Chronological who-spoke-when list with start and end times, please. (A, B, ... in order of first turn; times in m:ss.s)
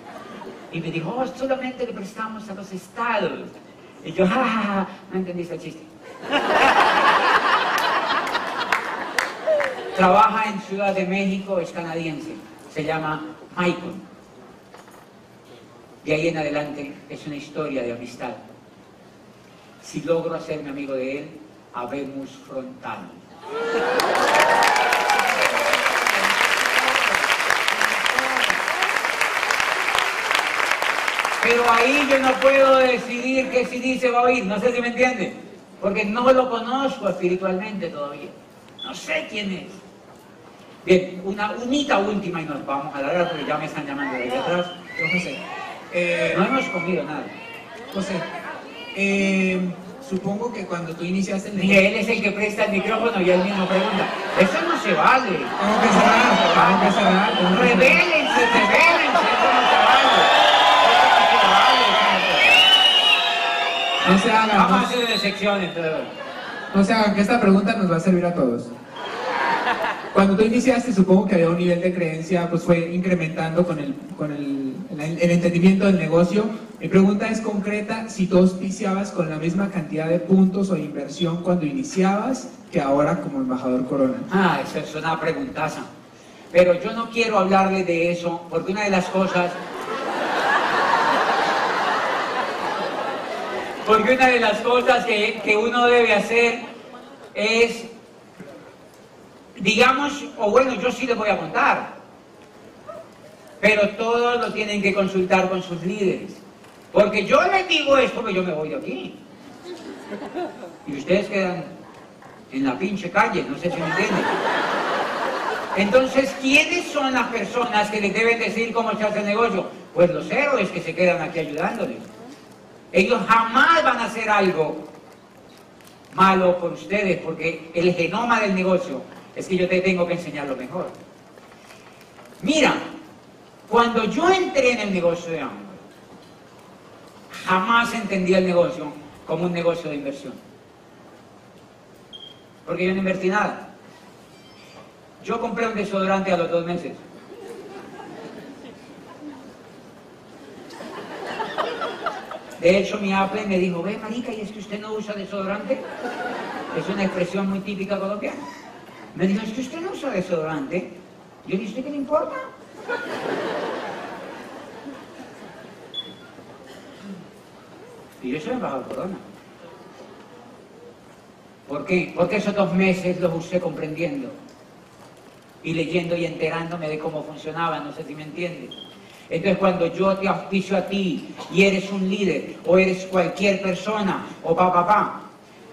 0:00.7-0:03.5 A
0:04.0-0:05.9 A
0:10.0-0:14.0 A
0:16.0-0:18.4 A
0:19.8-0:23.2 A
0:31.4-0:39.8 A
0:40.8-0:44.7 A
0:44.9-0:46.4 B
0:46.3-0:47.3 A
0:47.9-0:48.3 B
0:48.9-0:51.8 B
0:51.6-1:02.6 A
0:55.6-0:58.8 B
1:04.0-1:04.9 B
1:04.5-1:06.1 A
1:06.7-1:08.7 B
1:10.1-1:24.3 B
1:24.3-1:25.9 A
1:26.5-1:29.6 A
1:33.8-1:36.6 A
1:37.3-1:37.9 A
1:39.6-1:41.9 A
1:43.6-1:46.4 A
1:46.9-1:49.2 A
1:50.8-1:51.7 A
1:52.5-1:54.4 A
1:55.7-2:02.1 A
2:02.9-2:04.9 A
2:06.1-2:11.0 A
2:12.4-2:12.8 A
2:13.7-2:15.8 A
2:17.3-2:20.4 A
2:22.7-2:23.7 A
2:25.2-2:27.0 A
2:32.6-2:35.8 A
2:36.7-2:38.5 A
2:39.1-2:40.9 A
2:41.4-2:42.5 A
2:48.2-2:49.2 A
2:51.7-2:54.4 A
2:55.6-2:58.7 A
2:59.3-3:05.2 A